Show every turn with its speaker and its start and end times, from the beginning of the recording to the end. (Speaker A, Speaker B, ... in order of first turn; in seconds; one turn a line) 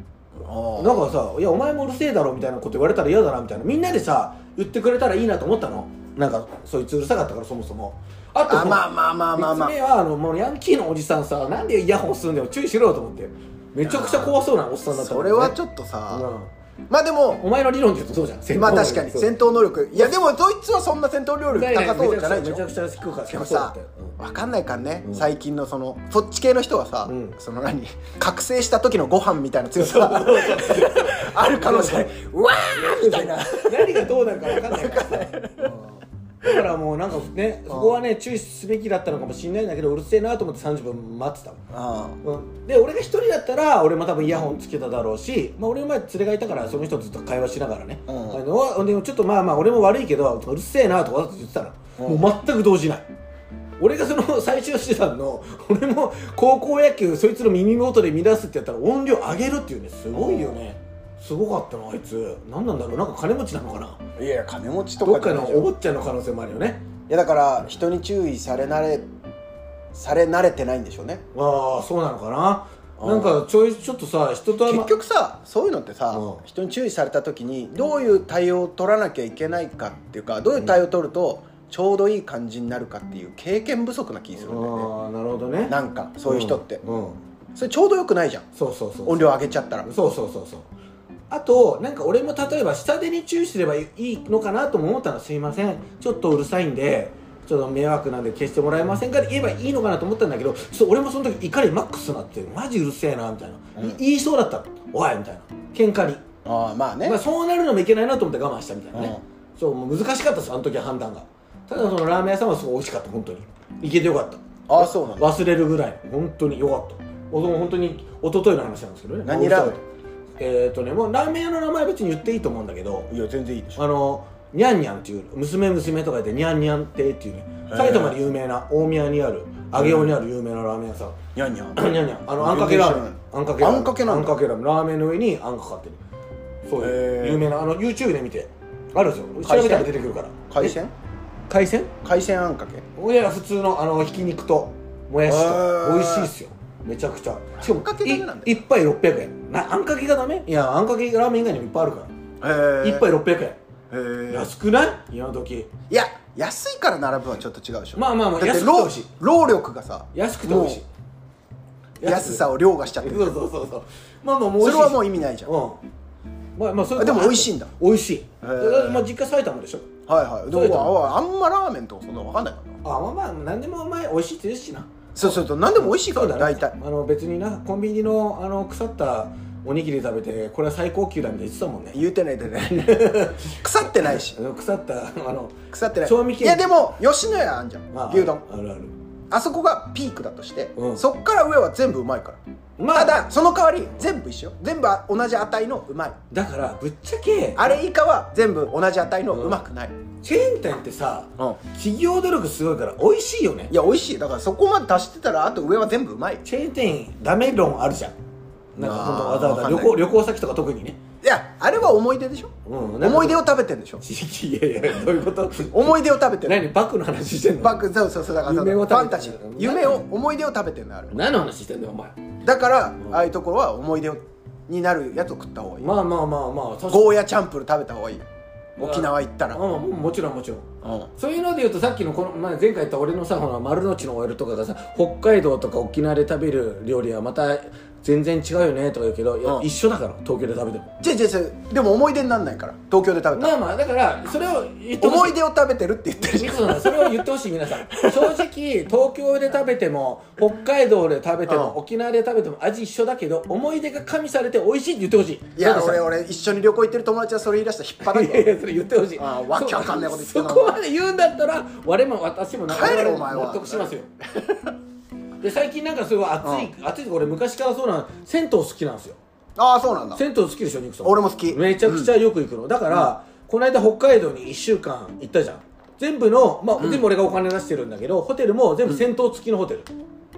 Speaker A: 0.4-1.1
Speaker B: 0.8-15.6
Speaker A: 8.4-9.8
Speaker A: 13.8-14.4
Speaker A: 14.9-16.3
Speaker B: 16.1-16.5
Speaker A: 16.9-17.4
Speaker B: 17.4-19.3
Speaker A: 18.6-22.6
Speaker B: 19.9-20.2
Speaker B: 21.5-24.1
Speaker A: 23.3-35.8
Speaker B: 27.1-27.4
Speaker B: 29.8-32.1
Speaker B: 32.7-35.9
Speaker B: 36.4-41.6
Speaker A: 37.7-38.0
Speaker A: 41.7-42.2
Speaker B: 42.2-53.0
Speaker A: 48.1-48.4
Speaker A: 52.0-52.2
Speaker B: 53.8-64.0
Speaker A: 60.1-60.6
Speaker A: 64.2-65.7
Speaker B: 65.0-66.8
Speaker A: 67.1-69.1
Speaker A: 69.9-71.2
Speaker B: 71.3-74.9
Speaker A: 73.0-73.4
Speaker A: 74.6-84.9
Speaker B: 76.1-76.4
Speaker B: 84.4-87.2
Speaker A: 85.7-86.8
Speaker A: 87.5-88.5
Speaker B: 88.5-90.7
Speaker A: 89.0-89.9
Speaker B: 91.3-106.2
Speaker A: 106.4-107.2
Speaker B: 107.0-119.8
Speaker A: 108.9-109.2
Speaker A: 114.7-115.4
Speaker A: 119.2-119.8
Speaker B: 120.4-123.1
Speaker A: 123.1-123.8
Speaker B: 123.8-131.2
Speaker A: 127.7-128.2
Speaker A: 129.7-130.2
Speaker A: 131.3-134.3
Speaker B: 131.8-136.0
Speaker B: 136.6-140.8
Speaker A: 136.8-137.4
Speaker A: 139.4-139.9
Speaker A: 140.5-140.9
Speaker B: 141.5-141.9
Speaker A: 142.0-142.8
Speaker B: 142.9-152.1
Speaker A: 145.3-146.3
Speaker A: 147.6-148.6
Speaker A: 152.4-153.1
Speaker B: 152.8-153.6
Speaker A: 153.9-154.5
Speaker B: 154.3-155.7
Speaker A: 155.9-160.8
Speaker B: 157.9-159.1
Speaker B: 160.1-160.8
Speaker B: 162.0-162.5
Speaker A: 162.0-163.3
Speaker B: 163.0-165.8
Speaker A: 164.6-165.5
Speaker B: 166.6-169.9
Speaker A: 166.9-167.7
Speaker A: 168.4-169.0
Speaker A: 170.1-172.8
Speaker B: 170.5-170.9
Speaker B: 172.8-182.0
Speaker A: 175.1-176.7
Speaker A: 181.9-184.4
Speaker B: 182.7-186.7
Speaker A: 185.7-188.4
Speaker B: 187.9-188.9
Speaker A: 189.3-192.4
Speaker B: 190.8-191.0
Speaker B: 192.8-193.2
Speaker A: 192.9-196.2
Speaker B: 196.3-197.8
Speaker A: 197.6-199.9
Speaker B: 199.3-199.6
Speaker B: 200.2-203.7
Speaker A: 203.7-206.4
Speaker B: 206.4-208.1
Speaker B: 208.7-211.0
Speaker A: 208.8-209.9
Speaker A: 211.2-214.0
Speaker B: 212.7-213.4
Speaker B: 214.0-217.8
Speaker A: 215.7-216.6
Speaker A: 217.6-221.2
Speaker B: 218.4-220.0
Speaker B: 221.1-222.2
Speaker A: 222.4-225.9
Speaker B: 225.8-227.1
Speaker A: 226.9-228.2
Speaker A: 228.8-229.6
Speaker B: 228.8-240.9
Speaker A: 230.8-231.1
Speaker A: 241.0-243.5
Speaker B: 243.3-245.4
Speaker A: 245.0-247.2
Speaker B: 246.2-256.0
Speaker A: 247.9-248.5
Speaker A: 251.5-251.8
Speaker A: 255.6-258.5
Speaker B: 258.0-264.1
Speaker A: 259.2-260.8
Speaker A: 262.7-264.7
Speaker B: 265.4-269.2
Speaker A: 266.4-266.7
Speaker A: 269.6-270.2
Speaker B: 270.1-279.9
Speaker A: 271.0-272.1
Speaker A: 276.8-277.0